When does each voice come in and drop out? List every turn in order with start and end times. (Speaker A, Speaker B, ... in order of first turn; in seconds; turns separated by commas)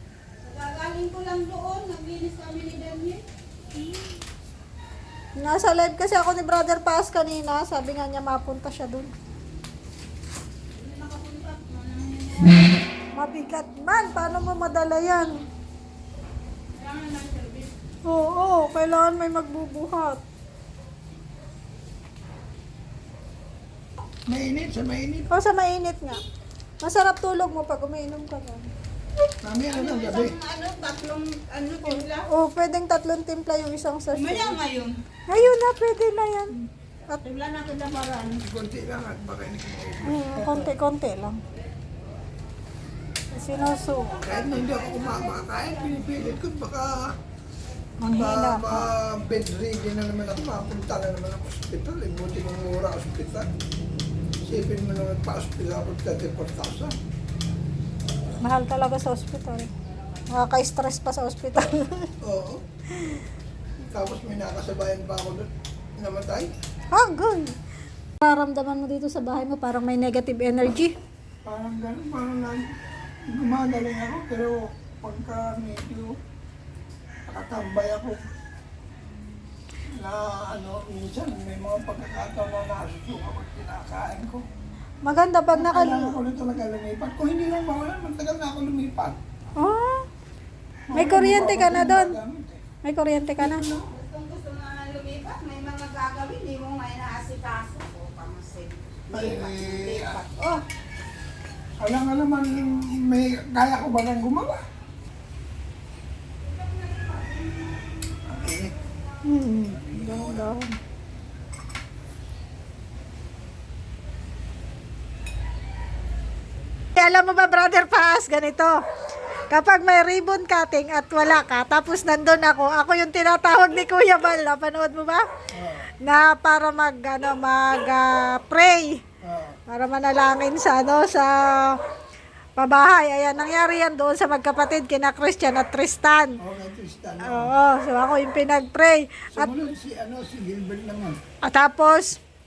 Speaker A: 0.4-3.2, Speaker B: 3.8-4.2, Speaker B: 5.4-9.1, Speaker A: 10.7-12.7, Speaker B: 13.1-15.3, Speaker A: 16.7-17.7, Speaker B: 18.0-20.2, Speaker C: 24.3-25.3, Speaker B: 25.3-26.2, Speaker B: 26.8-28.7, Speaker C: 29.4-30.4, Speaker A: 29.7-32.3, Speaker B: 31.8-34.6, Speaker A: 34.1-35.0, Speaker B: 35.3-37.2, Speaker A: 37.2-38.3, Speaker C: 38.2-40.7, Speaker B: 40.0-41.4, Speaker B: 43.3-44.2, Speaker C: 44.2-47.1, Speaker B: 48.0-48.9, Speaker C: 48.2-53.5, Speaker C: 54.4-57.0, Speaker B: 58.4-59.7, Speaker B: 60.3-62.1, Speaker C: 62.2-62.6, Speaker B: 62.9-63.2, Speaker C: 63.8-66.5, Speaker B: 66.9-67.6, Speaker B: 68.2-70.9, Speaker C: 71.5-76.1, Speaker C: 77.3-78.2, Speaker C: 80.0-84.5, Speaker B: 85.0-86.2, Speaker C: 85.5-89.2, Speaker B: 89.6-90.1, Speaker C: 90.9-92.6, Speaker B: 90.9-92.2, Speaker B: 92.8-93.6, Speaker C: 93.4-93.9, Speaker A: 93.8-100.6, Speaker C: 99.1-100.2, Speaker C: 101.8-104.6, Speaker C: 108.3-108.7, Speaker B: 109.2-110.7, Speaker C: 109.6-110.5, Speaker B: 116.9-118.7, Speaker B: 119.5-125.2, Speaker C: 125.5-125.9, Speaker B: 126.0-129.0, Speaker C: 129.2-129.6, Speaker B: 129.7-131.8, Speaker B: 132.6-136.3, Speaker C: 136.4-137.5, Speaker B: 137.2-139.5, Speaker C: 139.3-141.2, Speaker B: 141.4-142.2